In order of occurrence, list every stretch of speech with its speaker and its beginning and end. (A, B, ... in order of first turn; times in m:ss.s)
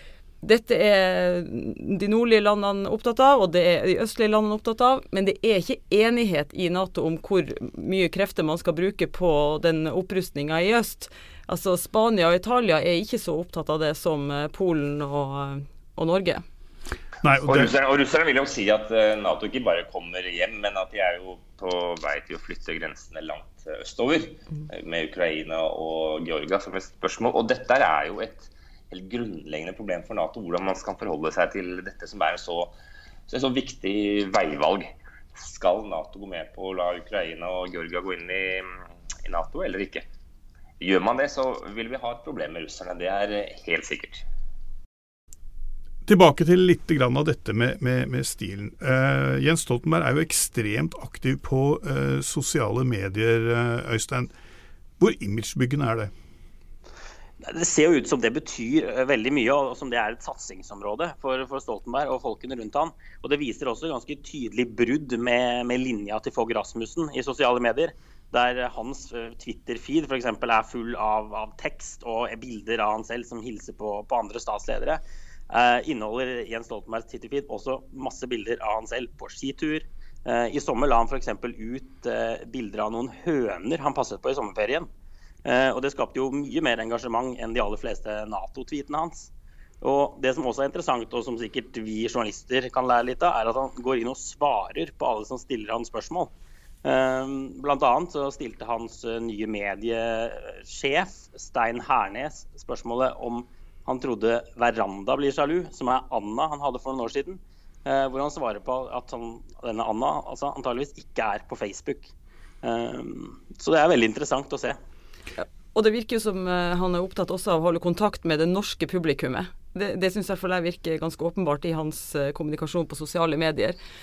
0:00.4-0:16.4 A
0:17.2-0:17.7 B
0:17.4-0:32.7 C
0:33.3-0:40.0 C
0:40.8-0:44.2 C
0:46.0-0:54.3 B
0:55.0-0:56.1 B
0:57.4-1:24.9 D
1:25.4-1:36.3 D
1:36.8-1:52.1 D
1:52.6-1:54.8 D
1:55.4-2:03.8 A